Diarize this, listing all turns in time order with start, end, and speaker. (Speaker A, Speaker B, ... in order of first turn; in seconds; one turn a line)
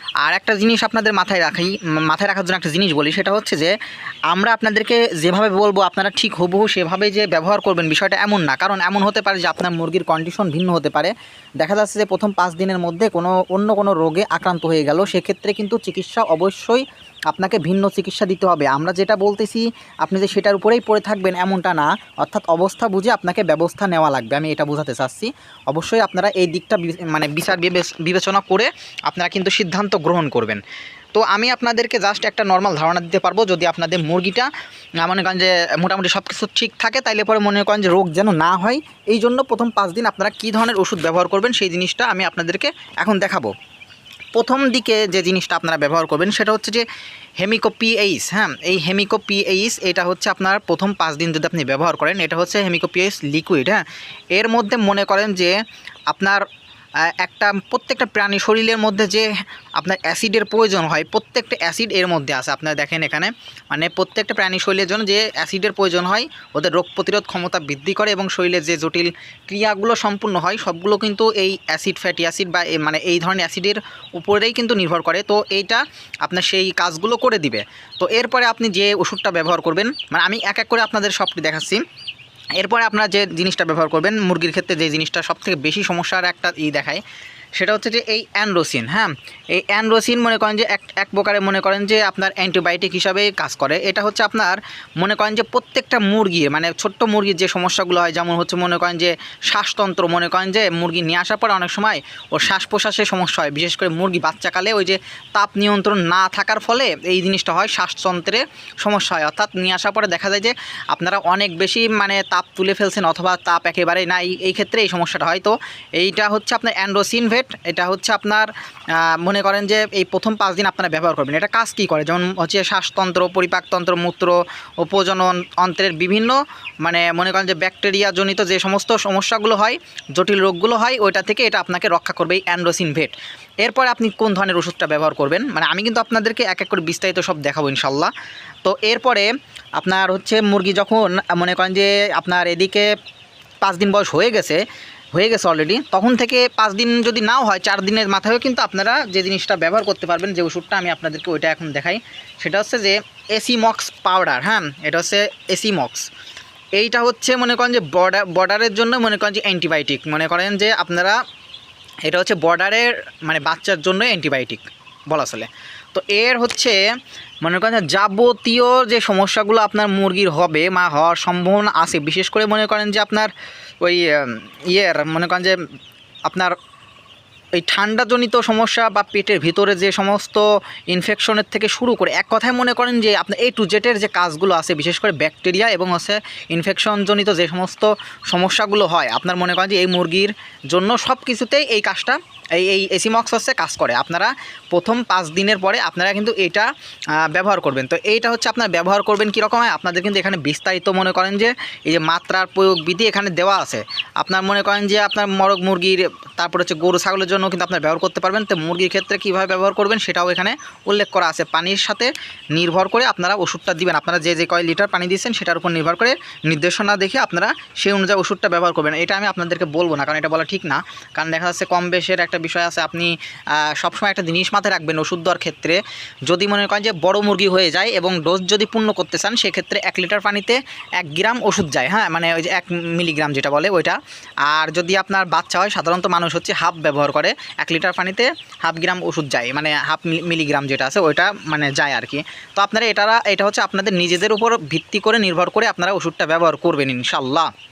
Speaker A: 0.2-3.8
Speaker A: 4.3-30.6
Speaker A: 31.1-34.5
Speaker A: 35.0-43.5
Speaker A: 44.3-46.8
Speaker A: 47.4-55.5
Speaker A: 56.1-56.4
Speaker A: 57.0-81.8
Speaker A: 82.6-87.0
Speaker A: 87.6-138.1
Speaker A: 138.7-142.9
Speaker A: 143.6-144.6
Speaker A: 145.1-156.1
Speaker A: 156.8-161.2
Speaker A: 162.1-166.8
Speaker A: 167.4-175.6
Speaker A: 176.3-176.6
Speaker A: 177.6-247.5